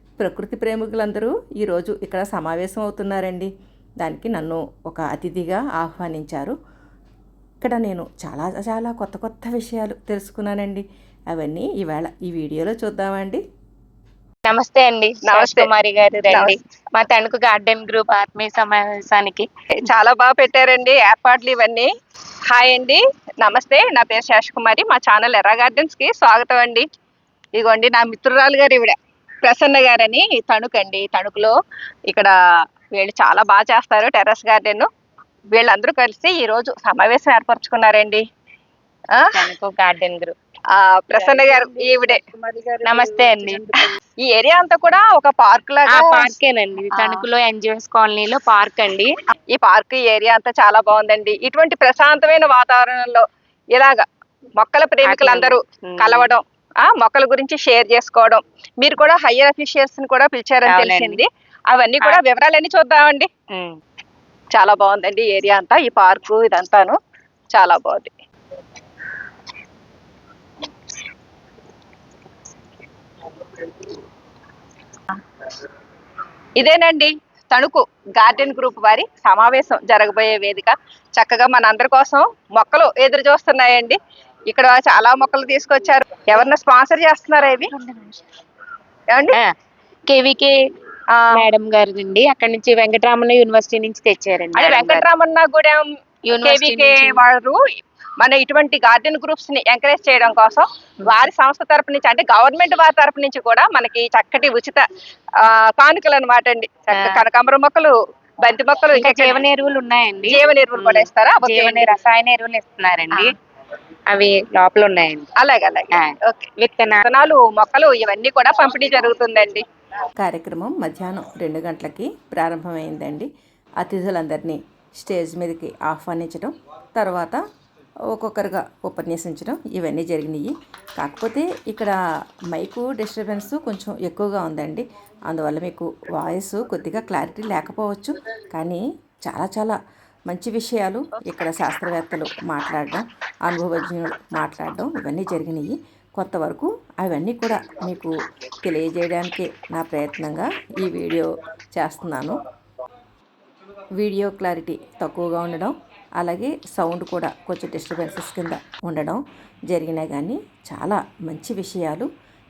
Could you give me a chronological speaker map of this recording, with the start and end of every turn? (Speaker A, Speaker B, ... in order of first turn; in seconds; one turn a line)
Speaker A: 0.2-3.5
Speaker A: 4.0-6.5
Speaker A: 7.6-13.4
Speaker B: 14.4-19.5
Speaker C: 15.2-15.7
Speaker C: 16.3-16.6
Speaker C: 19.8-21.9
Speaker C: 22.5-26.9
Speaker C: 27.6-31.6
Speaker C: 32.9-34.9
Speaker C: 35.5-38.2
Speaker C: 39.1-39.5
Speaker B: 39.3-40.3
Speaker C: 40.7-46.3
Speaker B: 41.1-42.1
Speaker B: 42.8-43.7
Speaker B: 45.9-49.1
Speaker C: 46.9-47.2
Speaker C: 49.5-54.0
Speaker C: 54.6-63.3
Speaker B: 55.0-56.3
Speaker B: 60.6-61.2
Speaker B: 63.5-63.8
Speaker C: 64.5-67.0
Speaker C: 67.5-68.1
Speaker C: 76.6-84.0
Speaker C: 84.5-87.7
Speaker B: 87.7-88.2
Speaker C: 89.1-89.4
Speaker B: 90.1-90.5
Speaker C: 91.2-91.5
Speaker B: 91.3-95.0
Speaker C: 94.5-95.8
Speaker B: 96.3-97.2
Speaker C: 96.4-97.6
Speaker C: 98.2-104.8
Speaker C: 105.4-107.9
Speaker B: 106.9-107.2
Speaker C: 108.4-109.4
Speaker B: 108.9-113.3
Speaker C: 110.2-112.0
Speaker B: 114.1-115.3
Speaker C: 115.4-116.5
Speaker B: 115.9-117.0
Speaker C: 117.0-119.6
Speaker A: 120.2-123.3
Speaker A: 123.8-127.4
Speaker A: 128.1-130.4
Speaker A: 131.0-131.9
Speaker A: 132.6-138.8
Speaker A: 139.3-139.7
Speaker A: 140.3-148.1
Speaker A: 148.6-152.4
Speaker A: 154.0-159.2
Speaker A: 159.7-162.1